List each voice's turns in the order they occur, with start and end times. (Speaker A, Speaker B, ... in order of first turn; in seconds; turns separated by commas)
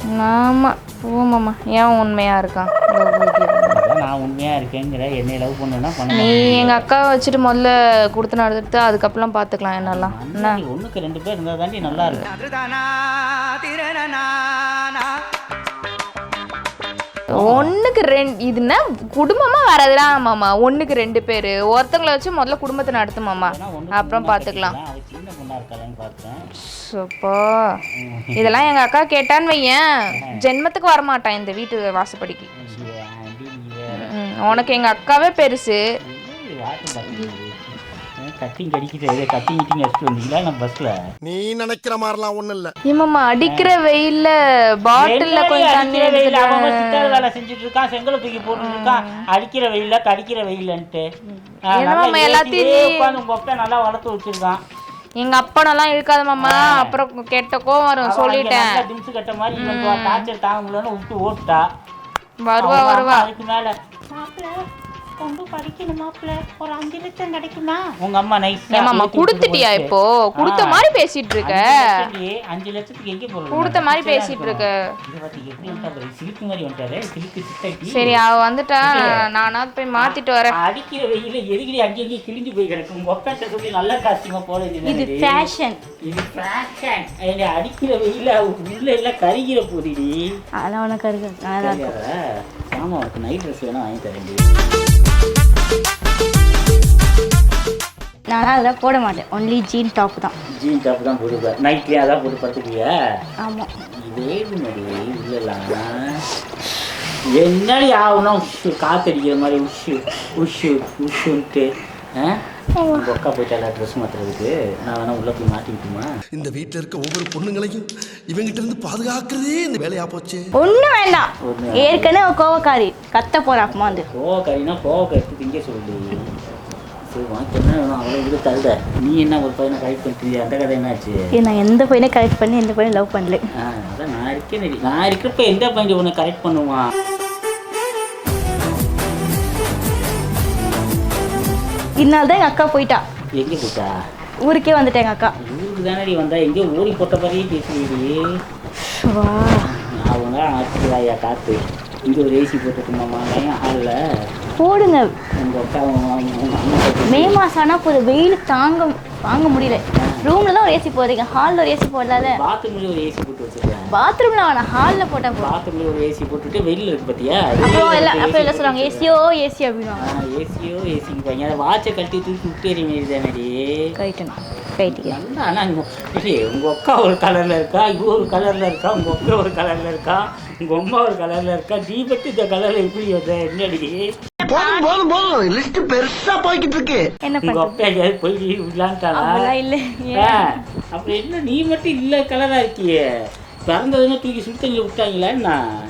Speaker A: 0.2-3.8, Speaker B: 3.7-6.8, Speaker A: 6.1-10.6, Speaker B: 9.8-12.2, Speaker A: 11.9-12.2, Speaker C: 12.4-12.9, Speaker C: 13.6-14.3, Speaker A: 17.3-24.8, Speaker B: 17.4-17.8, Speaker B: 23.4-26.4, Speaker A: 26.7-27.7, Speaker B: 28.0-28.7, Speaker A: 28.4-32.5, Speaker B: 32.5-34.7, Speaker A: 34.0-35.8, Speaker B: 36.0-40.9, Speaker D: 41.2-42.7, Speaker A: 42.9-47.2, Speaker B: 43.5-43.7, Speaker B: 45.0-51.1, Speaker A: 48.5-49.2, Speaker B: 51.7-54.6, Speaker A: 51.7-53.2, Speaker A: 55.2-58.8, Speaker B: 56.4-57.0, Speaker B: 58.0-61.7, Speaker A: 59.6-60.3, Speaker A: 62.5-63.3, Speaker B: 62.6-64.7, Speaker B: 65.2-70.9, Speaker A: 68.7-72.0, Speaker B: 71.4-78.2, Speaker A: 73.5-74.8, Speaker A: 77.9-80.6, Speaker B: 78.8-79.3, Speaker B: 80.0-85.5, Speaker C: 84.8-85.8, Speaker B: 86.0-90.3, Speaker C: 90.6-91.9, Speaker B: 91.6-94.4, Speaker C: 98.3-100.3, Speaker B: 100.6-102.9, Speaker C: 103.4-103.7, Speaker B: 104.0-105.9, Speaker B: 107.4-116.1, Speaker C: 112.8-113.0, Speaker D: 116.4-120.4, Speaker C: 120.6-124.1, Speaker B: 121.4-122.1, Speaker B: 123.7-126.3, Speaker B: 127.1-131.2, Speaker C: 131.3-133.4, Speaker B: 133.6-136.9, Speaker C: 142.0-143.0, Speaker B: 143.4-143.9, Speaker C: 144.4-145.3, Speaker B: 145.4-148.3, Speaker C: 148.9-149.7, Speaker B: 149.7-154.0, Speaker C: 154.6-155.1, Speaker B: 155.4-157.4, Speaker C: 157.1-162.4, Speaker B: 159.9-160.2, Speaker B: 162.2-163.9, Speaker C: 163.9-165.5, Speaker B: 165.4-169.1, Speaker C: 167.6-170.2, Speaker B: 170.0-173.9, Speaker C: 174.0-175.2, Speaker B: 174.9-184.1, Speaker C: 184.4-185.0, Speaker E: 184.5-187.0, Speaker D: 184.6-184.9, Speaker D: 186.0-186.3, Speaker C: 187.2-187.8, Speaker B: 187.4-189.5, Speaker C: 189.1-190.6, Speaker B: 190.2-193.1, Speaker B: 193.7-195.6